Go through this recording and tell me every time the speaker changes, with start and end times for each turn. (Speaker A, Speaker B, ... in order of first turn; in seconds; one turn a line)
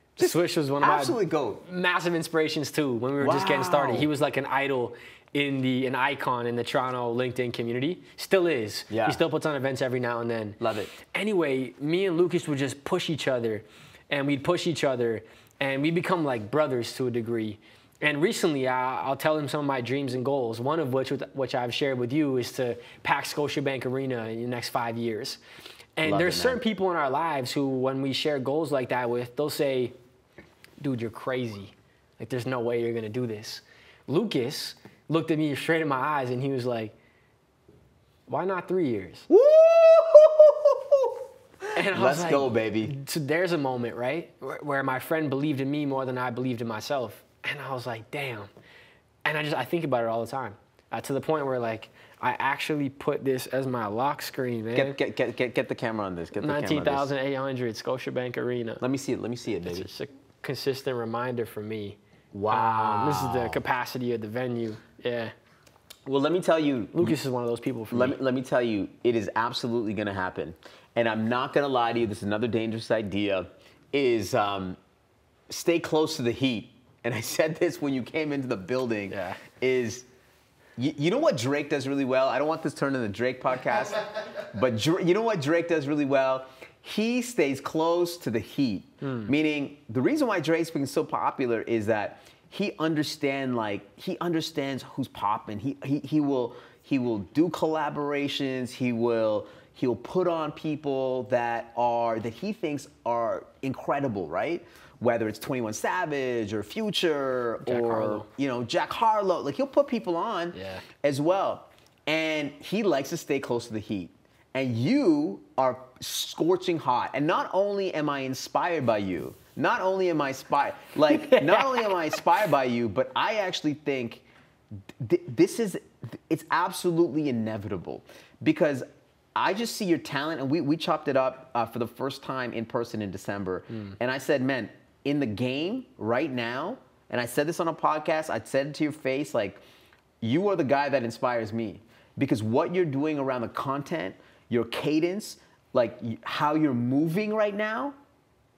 Speaker A: 0.2-25.4
Speaker B: 0.2-1.6
Speaker B: 3.2-4.1
Speaker B: 8.9-9.2
Speaker B: 10.6-10.9
Speaker A: 26.0-29.9
Speaker B: 26.0-26.6
Speaker A: 30.8-36.9
Speaker A: 38.3-39.3
Speaker B: 39.3-43.0
Speaker A: 41.8-48.5
Speaker A: 49.2-55.0
Speaker B: 54.7-57.1
Speaker A: 56.4-58.8
Speaker B: 58.8-59.9
Speaker A: 59.6-62.0
Speaker B: 62.3-63.6
Speaker A: 62.5-65.3
Speaker B: 66.1-67.2
Speaker A: 67.0-68.2
Speaker B: 67.9-74.8
Speaker B: 75.5-80.1
Speaker A: 79.1-79.4
Speaker B: 80.8-124.2
Speaker A: 89.0-89.3
Speaker A: 107.7-108.3
Speaker A: 110.5-110.8
Speaker A: 121.1-122.0
Speaker B: 125.0-128.8
Speaker B: 129.4-139.6
Speaker B: 140.2-147.9